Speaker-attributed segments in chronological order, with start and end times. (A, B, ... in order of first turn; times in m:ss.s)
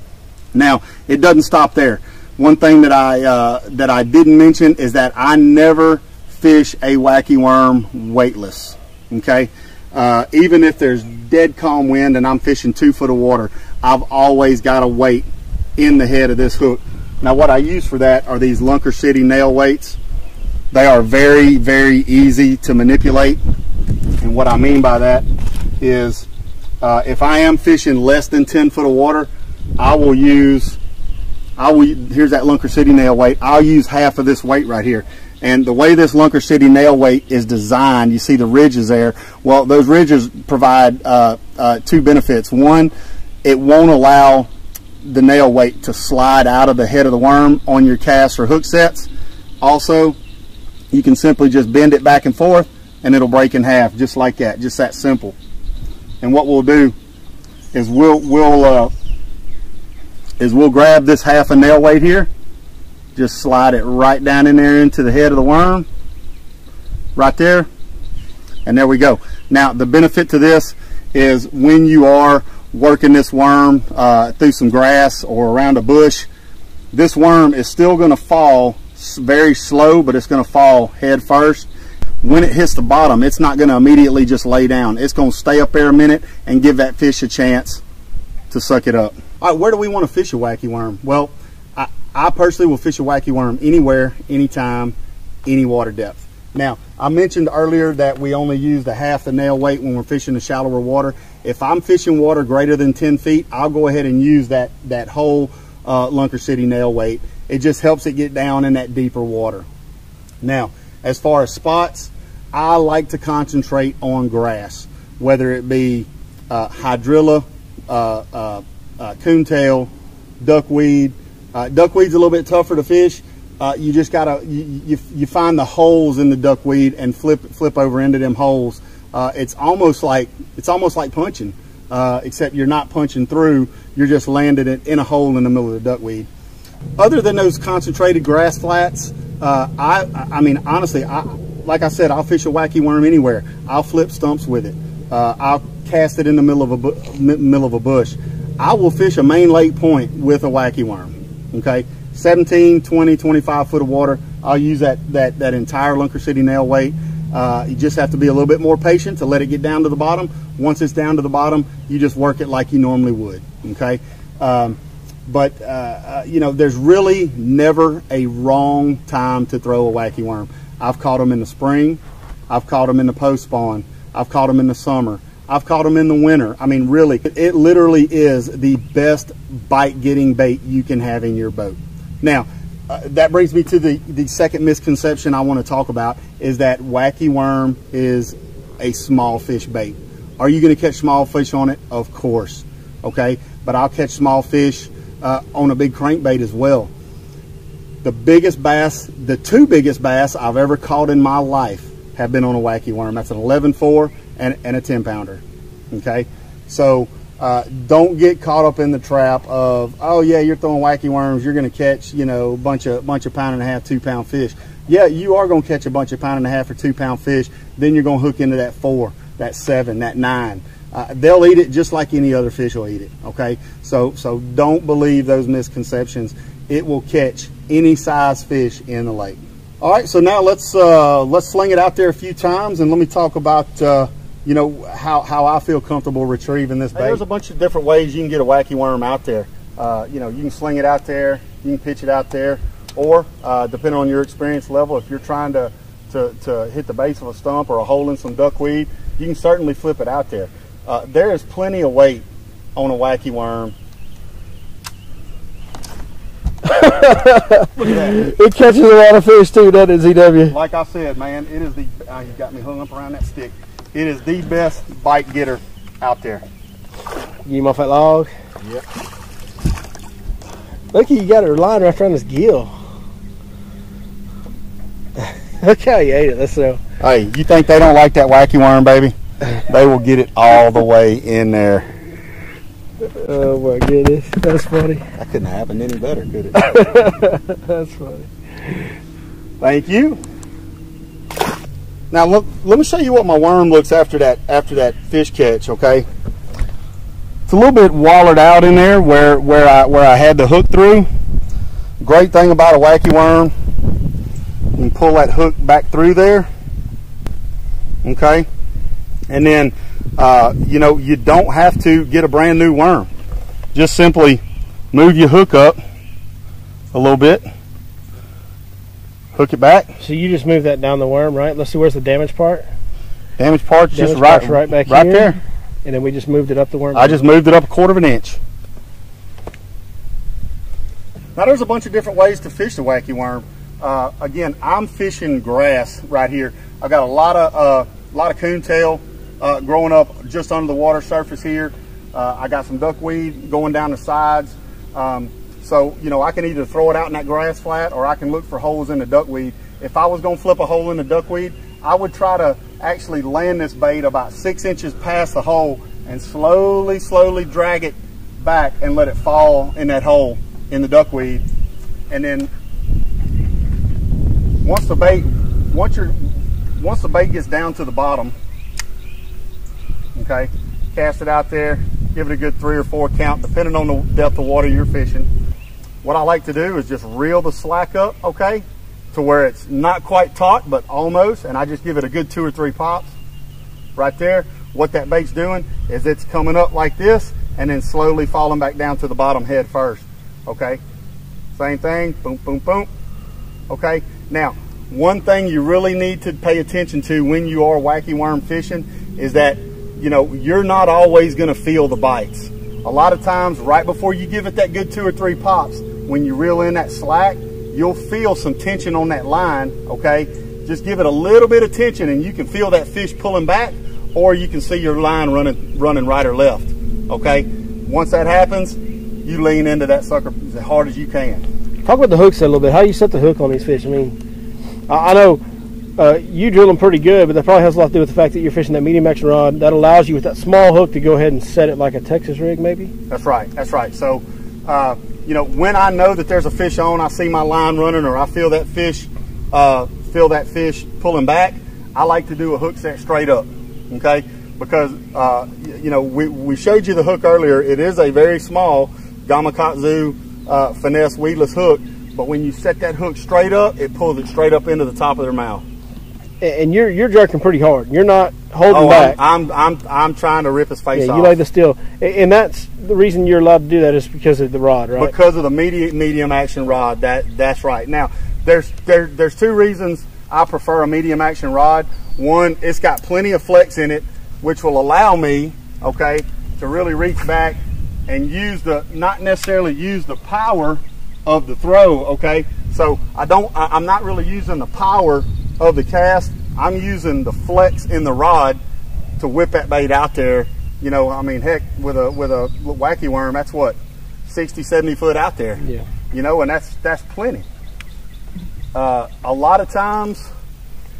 0:00.5-0:20.0 A
0:20.7-0:23.4 A
0:24.2-0:25.3 A
0:25.8-0:26.3 A
0:26.8-0:30.8 A
0:31.6-0:42.9 A
0:43.4-0:44.5 A
0:45.0-0:49.1 A
0:49.6-0:50.2 A
0:50.9-0:55.4 A
0:56.2-0:57.0 A
0:57.7-0:58.9 A
1:00.4-1:02.3 A
1:03.2-1:05.9 A
1:07.2-1:07.7 A
1:08.6-1:16.3 A
1:16.9-1:21.7 A
1:22.2-1:27.8 A
1:28.5-1:35.0 A
1:35.5-1:49.7 A
1:50.4-2:16.3 A
2:17.0-3:16.9 A
3:18.0-4:12.2 A
4:12.8-4:13.8 A
4:16.6-4:20.6 B
4:17.8-4:18.2 A
4:20.5-4:26.4 A
4:27.4-4:28.3 B
4:30.9-4:32.7 B
4:35.2-4:36.8 B
4:37.0-4:41.9 A
4:43.0-4:45.0 B
4:45.2-4:46.8 A
4:46.6-4:48.8 B
4:49.6-4:50.2 A
4:52.1-4:56.1 A
4:57.5-5:01.1 A
5:02.0-5:03.5 A
5:04.8-5:06.5 A
5:08.0-5:08.5 A
5:09.3-5:13.1 A
5:13.8-5:14.4 A
5:14.9-5:15.8 A
5:16.9-5:17.5 A
5:19.4-5:19.9 A
5:20.0-5:22.7 B
5:23.4-5:25.4 A
5:23.9-5:27.2 B
5:27.0-5:28.4 A
5:31.4-6:01.4 A
6:02.1-6:02.5 A
6:04.6-6:08.3 A
6:10.2-6:15.3 A
6:16.0-6:23.2 A
6:24.0-6:30.8 A
6:31.6-6:32.9 A
6:33.7-7:01.4 A
7:01.8-7:04.2 B
7:04.9-7:05.4 B
7:06.0-7:12.9 B
7:13.1-7:35.6 A
7:36.4-7:39.2 B
7:38.7-7:41.4 A
7:41.0-7:45.1 B
7:45.0-8:08.6 A
8:09.2-8:17.4 A
8:15.6-8:15.9 B
8:18.7-8:20.3 A